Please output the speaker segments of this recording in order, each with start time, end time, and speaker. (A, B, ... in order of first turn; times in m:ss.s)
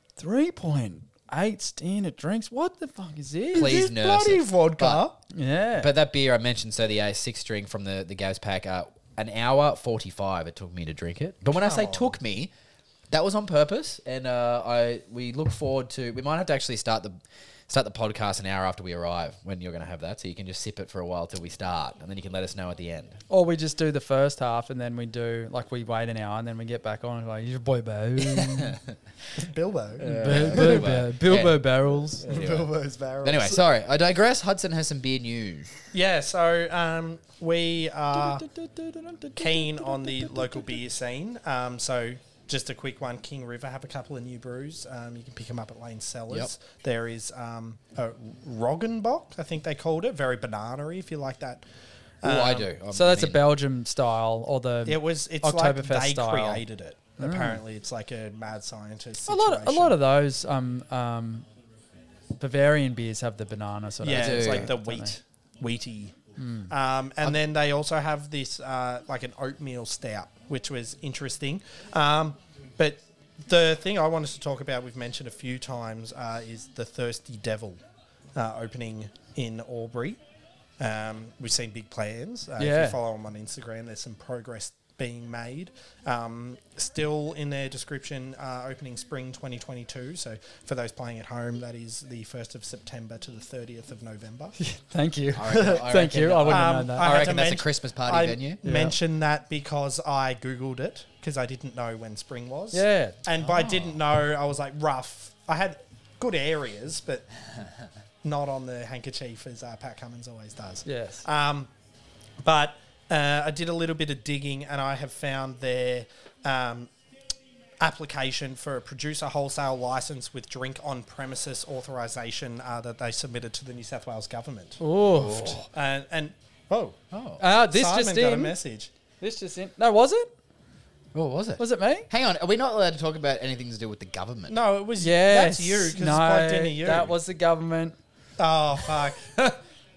0:00.2-0:03.8 A
0:03.5-0:05.2 B
0:03.5-0:05.0 C
0:05.3-0:05.9 A
0:05.8-0:12.5 C
0:11.6-0:12.1 B
0:13.1-0:17.2 C
0:17.7-0:23.2 C
0:23.3-0:28.8 A
0:28.2-0:28.9 C
0:29.4-0:30.8 B
0:30.0-0:31.6 C
0:30.0-0:32.5 A
0:32.2-0:35.7 C
0:32.2-0:33.6 B
0:35.9-0:38.4 B
0:38.1-0:40.8 A
0:39.4-0:51.6 B
0:52.2-0:52.7 B
0:52.2-0:53.4 C
0:52.9-0:56.6 A
0:54.8-1:00.0 B
0:57.2-0:57.6 A
0:59.3-1:01.4 A
1:02.4-1:05.1 A
1:04.0-1:06.2 B
1:04.1-1:04.7 C
1:06.4-1:06.7 A
1:06.7-1:17.8 B
1:18.3-1:20.2 B
1:20.8-1:34.6 B
1:22.6-1:23.0 A
1:34.6-1:37.3 A
1:35.3-1:38.6 C
1:36.4-1:47.3 B
1:38.6-1:39.0 A
1:42.7-1:43.2 A
1:43.4-1:43.9 C
1:48.2-1:51.7 B
1:50.8-1:51.2 A
1:52.4-1:56.9 B
1:57.8-2:04.8 B
2:04.8-2:05.6 A
2:05.1-2:05.6 C
2:05.7-2:07.0 B
2:07.1-2:07.4 C
2:07.4-2:08.6 A
2:07.6-2:08.9 B
2:09.2-2:10.3 A
2:11.1-2:14.6 C
2:11.6-2:12.1 A
2:14.5-2:17.2 B
2:15.0-2:18.0 A
2:18.4-2:19.5 B